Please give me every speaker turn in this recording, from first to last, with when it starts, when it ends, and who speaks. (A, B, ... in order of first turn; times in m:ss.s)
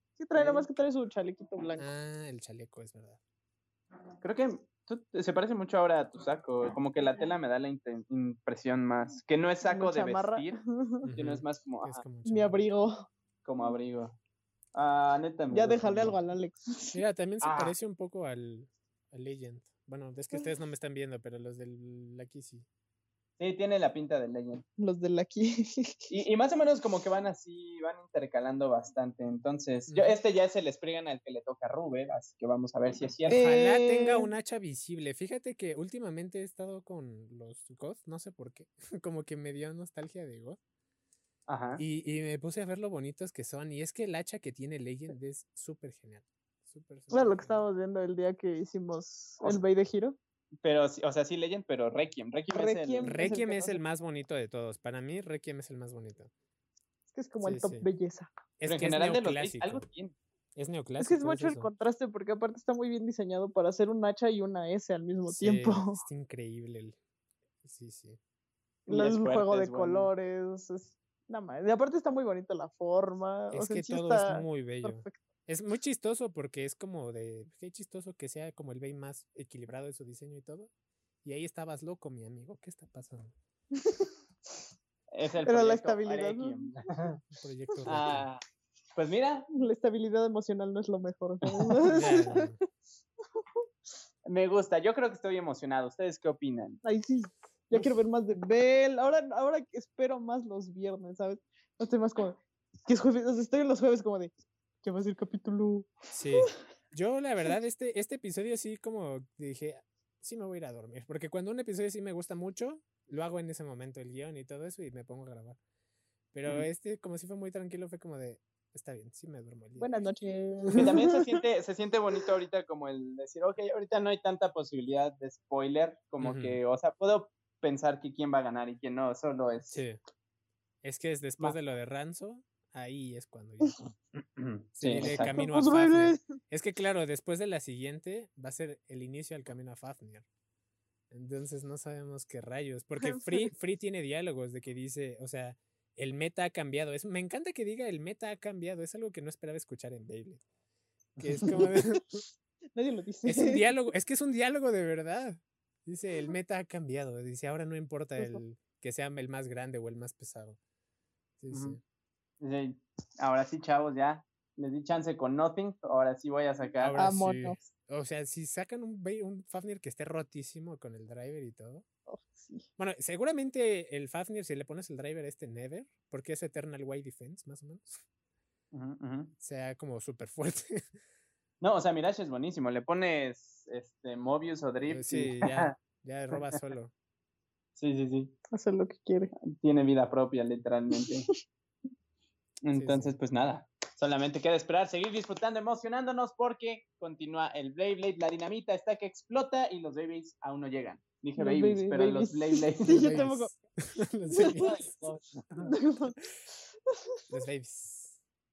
0:00.2-0:01.9 A
0:00.3-0:00.7 B
0:01.8-0:03.2 C
0:04.2-0:12.0 B
0:09.6-0:11.1 A
0:11.0-0:12.6 C
0:12.2-0:13.1 A
0:13.4-0:14.1 B
0:14.7-0:16.2 B
0:15.5-0:17.0 A
0:16.9-0:22.6 C
0:17.4-0:17.8 B
0:23.4-0:24.6 B
0:24.8-0:26.1 A
0:26.1-0:33.4 B
0:29.9-0:30.2 C
0:33.3-0:34.3 A
0:33.3-0:40.6 C
0:41.5-0:41.8 B
0:41.8-0:47.6 C
0:47.1-0:50.2 A
0:50.6-0:53.2 B
0:52.5-0:53.8 A
0:53.0-0:56.3 C
0:57.1-0:58.3 A
0:57.4-0:57.9 C
0:58.6-0:59.8 C
0:58.6-1:00.2 B
1:00.6-1:01.7 C
1:01.0-1:06.0 A
1:05.3-1:07.0 C
1:07.6-1:08.2 C
1:08.9-1:15.2 A
1:08.9-1:10.1 B
1:13.5-1:20.7 C
1:21.2-1:23.3 C
1:23.7-1:24.1 A
1:25.1-1:27.2 B
1:25.4-1:26.6 A
1:27.4-1:28.2 C
1:27.8-1:28.4 B
1:29.0-1:29.5 B
1:29.5-1:32.6 A
1:31.9-1:32.6 C
1:34.3-1:36.8 B
1:36.8-1:44.3 A
1:44.8-1:46.5 A
1:46.1-1:55.6 C
1:56.3-1:59.9 C
1:59.8-2:01.4 A
2:00.6-2:00.9 C
2:00.7-2:09.8 B
2:06.2-2:06.6 C
2:09.7-2:10.0 C
2:10.8-2:13.8 C
2:14.2-2:15.4 B
2:14.8-2:20.2 C
2:15.2-2:16.2 A
2:21.1-2:30.4 C
2:31.2-2:31.5 B
2:31.2-2:32.2 C
2:32.7-2:33.7 A
2:33.2-2:40.6 C
2:41.4-2:41.8 C
2:41.5-2:41.8 B
2:42.4-2:47.0 B
2:46.8-2:51.8 C
2:47.0-2:47.6 A
2:52.1-2:52.7 A
2:52.8-2:58.0 C
2:58.7-2:59.3 B
2:59.4-3:00.8 C
3:01.6-3:05.8 B
3:04.9-3:06.9 C
3:06.3-3:06.6 B
3:07.8-3:08.3 B
3:08.5-3:09.3 A
3:09.4-3:11.3 B
3:12.6-3:23.1 B
3:12.7-3:13.1 C
3:21.4-3:23.6 A
3:22.8-3:24.9 C
3:24.3-3:24.8 A
3:24.4-3:25.7 B
3:25.6-3:26.3 A
3:26.9-3:27.2 A
3:27.3-3:28.2 C